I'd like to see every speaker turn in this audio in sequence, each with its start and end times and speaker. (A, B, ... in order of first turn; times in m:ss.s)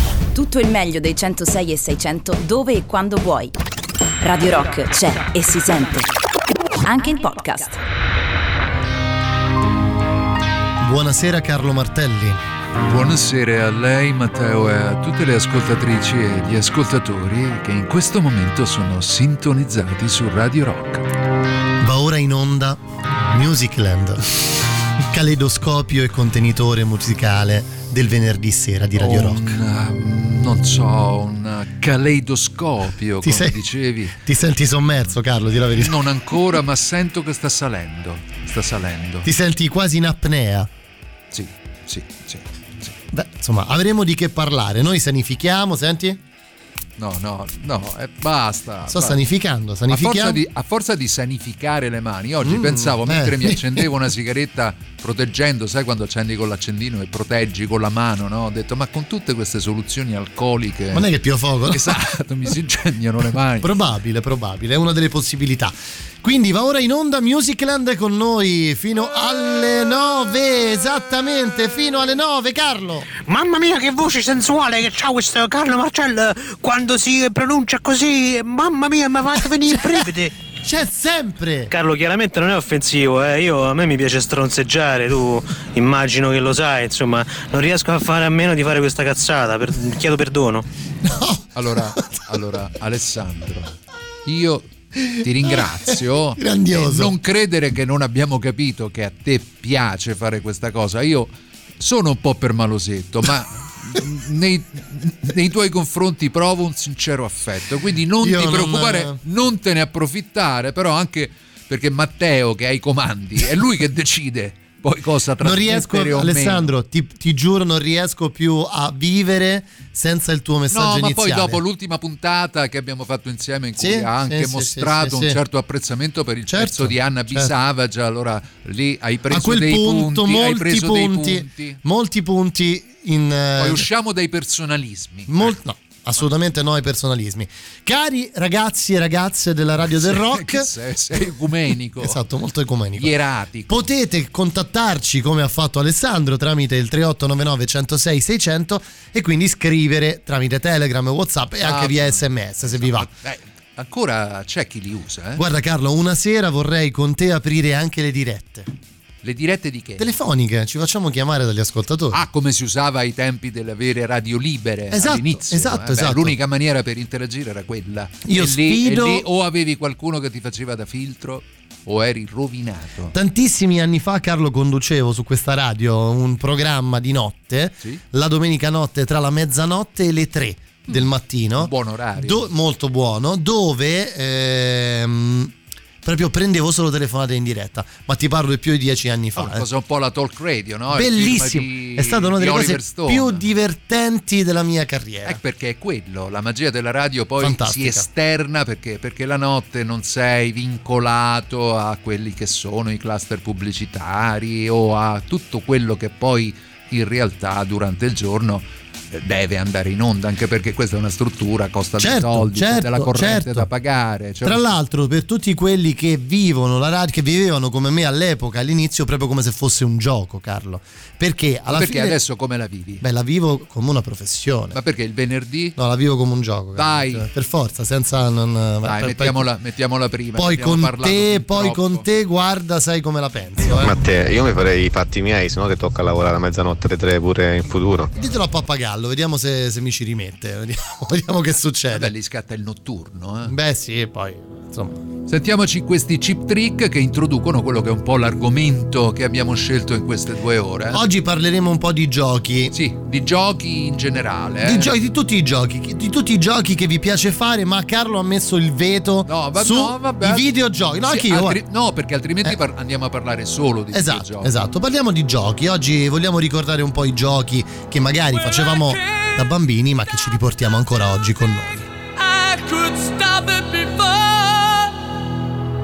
0:00.3-0:03.5 A
0:04.2-0:06.1 A
0:06.8-0:07.8 A
0:10.8-0:12.4 B
0:12.9-0:21.0 C
0:21.8-0:22.8 B
0:23.3-0:24.2 B
0:25.1-0:29.6 B
0:29.0-0:34.1 C
0:33.2-0:33.6 B
0:34.2-0:36.0 B
0:35.8-0:39.3 C
0:39.2-0:40.7 B
0:41.3-0:43.0 C
0:43.1-0:46.2 B
0:47.0-0:49.2 C
0:48.9-0:50.4 B
0:49.9-1:01.1 C
0:52.4-0:53.8 B
1:00.9-1:02.0 B
1:01.7-1:03.7 C
1:03.6-1:13.1 B
1:13.2-1:20.3 D
1:20.6-1:21.7 B
1:21.7-1:30.7 D
1:31.0-1:31.4 B
1:31.6-1:34.7 C
1:35.0-1:37.1 B
1:35.2-1:41.3 C
1:41.8-1:56.7 C
1:48.2-1:49.2 B
1:55.4-2:01.6 B
2:00.7-2:11.8 C
2:03.8-2:05.4 B
2:06.5-2:07.5 B
2:09.3-2:13.9 B
2:13.6-2:15.6 C
2:15.3-2:20.7 B
2:19.9-2:22.2 C
2:22.0-2:23.1 B
2:23.0-2:23.9 C
2:23.7-2:33.1 B
2:31.6-2:35.4 C
2:35.4-2:38.7 B
2:39.2-2:40.1 C
2:40.0-2:42.2 B
2:42.1-2:53.1 C
2:44.9-2:46.4 B
2:48.3-2:49.2 B
2:53.1-3:09.7 B
3:01.6-3:02.5 C
3:09.4-3:13.4 C
3:10.9-3:15.4 B
3:15.2-3:34.7 C
3:17.4-3:18.1 B
3:32.0-3:33.7 B
3:34.4-3:42.2 B
3:41.7-3:43.0 C
3:43.0-3:44.8 B
3:44.7-3:45.8 C
3:45.8-3:49.4 B
3:46.8-3:47.3 C
3:48.8-3:52.1 C
3:50.4-3:54.0 B
3:53.7-3:58.1 E
3:58.2-4:02.1 B
4:01.9-4:03.6 C
4:03.5-4:05.0 B
4:05.3-4:11.0 C
4:10.9-4:12.7 B
4:12.7-4:14.9 C
4:14.6-4:21.6 B
4:19.3-4:24.5 C
4:23.9-4:31.9 B
4:28.3-4:29.5 F
4:32.1-4:35.0 F